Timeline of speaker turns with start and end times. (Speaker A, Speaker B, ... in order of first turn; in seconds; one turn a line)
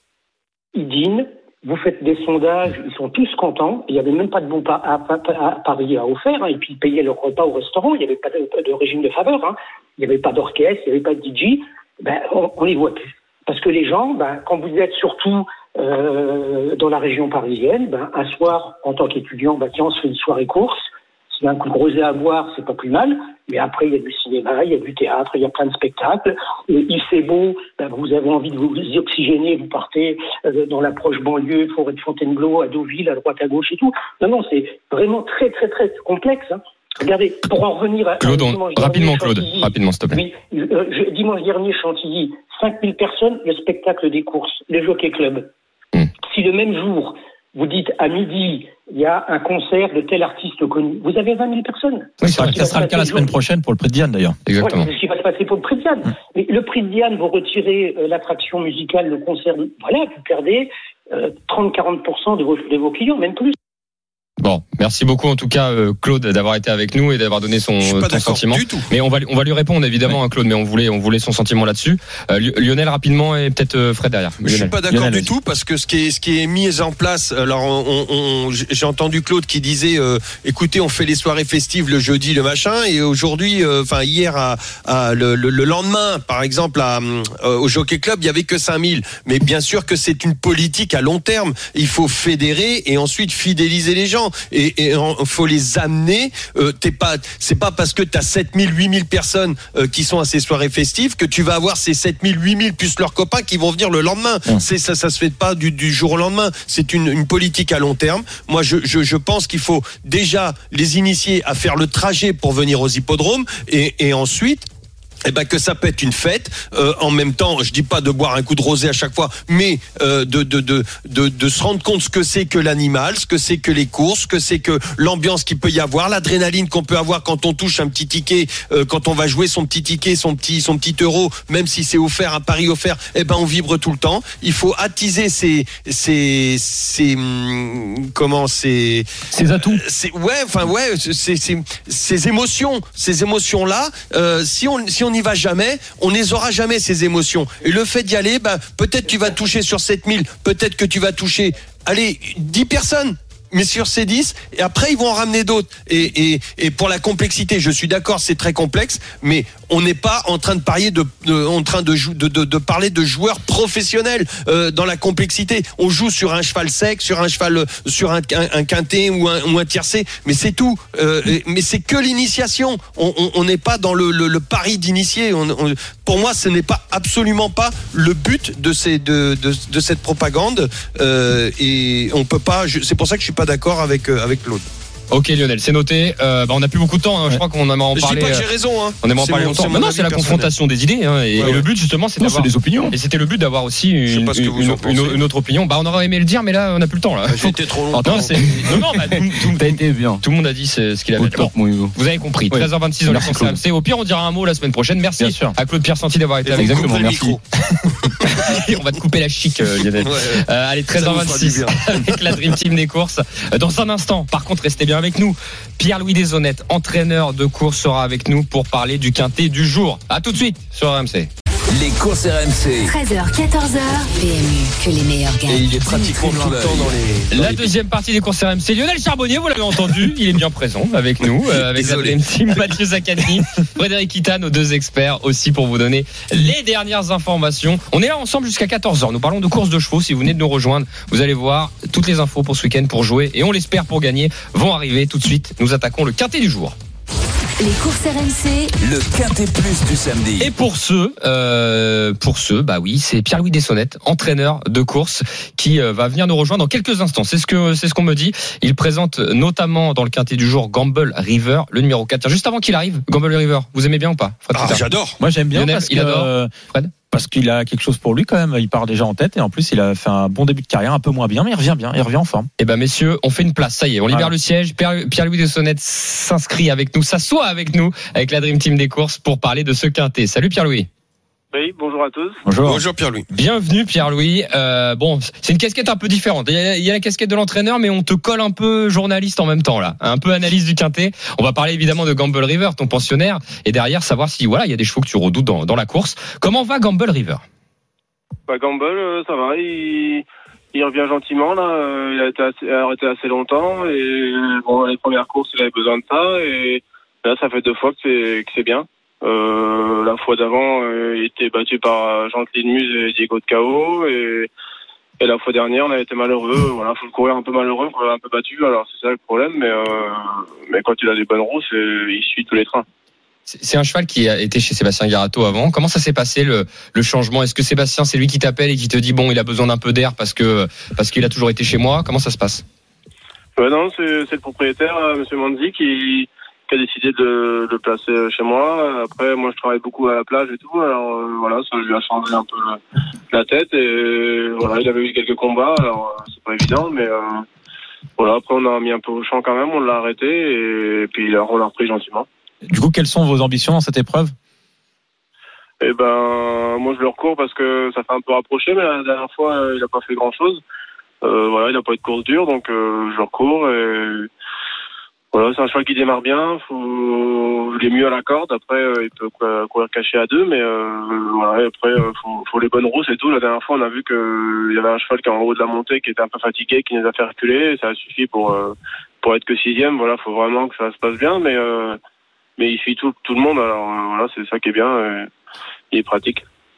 Speaker A: 0.7-45.5
Speaker B: 38.2-40.2
Speaker A: 46.3-53.3
Speaker B: 52.2-52.5
Speaker C: 52.2-54.4
Speaker B: 54.5-54.9
Speaker A: 54.6-63.5
Speaker B: 64.4-74.7
Speaker D: 67.8-68.9
Speaker D: 74.4-114.7
Speaker C: 74.9-75.3
Speaker D: 115.2-139.1
Speaker E: 139.3-139.8
Speaker D: 139.6-184.7
Speaker B: 185.1-188.5
Speaker D: 187.9-190.5
Speaker B: 189.0-207.1
Speaker D: 191.4-191.7
Speaker E: 192.2-193.0
Speaker D: 194.1-195.2
Speaker D: 197.3-198.5
Speaker E: 197.9-200.2
Speaker E: 201.2-201.9
Speaker C: 203.1-203.6
Speaker C: 205.2-205.6
Speaker D: 206.4-207.4
Speaker E: 206.6-207.4
Speaker D: 208.0-208.5
Speaker B: 208.2-221.3
Speaker D: 210.0-210.4
Speaker D: 210.9-212.1
Speaker F: 221.7-223.0
Speaker G: 222.8-226.0
Speaker D: 225.5-227.7
Speaker F: 225.6-227.0
Speaker B: 227.3-246.8
Speaker D: 231.3-232.7
Speaker G: 247.6-248.7
Speaker F: 248.8-250.5
Speaker B: 250.4-264.9
Speaker D: 264.5-265.2
Speaker C: 265.2-266.5
Speaker B: 265.5-266.9
Speaker C: 267.1-272.5
Speaker B: 272.6-280.9
Speaker H: 281.5-282.4
Speaker C: 282.4-282.8
Speaker D: 282.6-283.3
Speaker B: 283.3-297.4
Speaker H: 298.5-314.5
Speaker H: 315.2-322.9
Speaker B: 323.5-332.6
Speaker H: 333.6-347.4
Speaker H: 348.2-352.3
Speaker C: 352.7-354.3
Speaker H: 355.8-360.6
Speaker H: 361.2-364.3
Speaker H: 365.3-382.0
Speaker H: 382.6-385.3
Speaker H: 385.9-386.4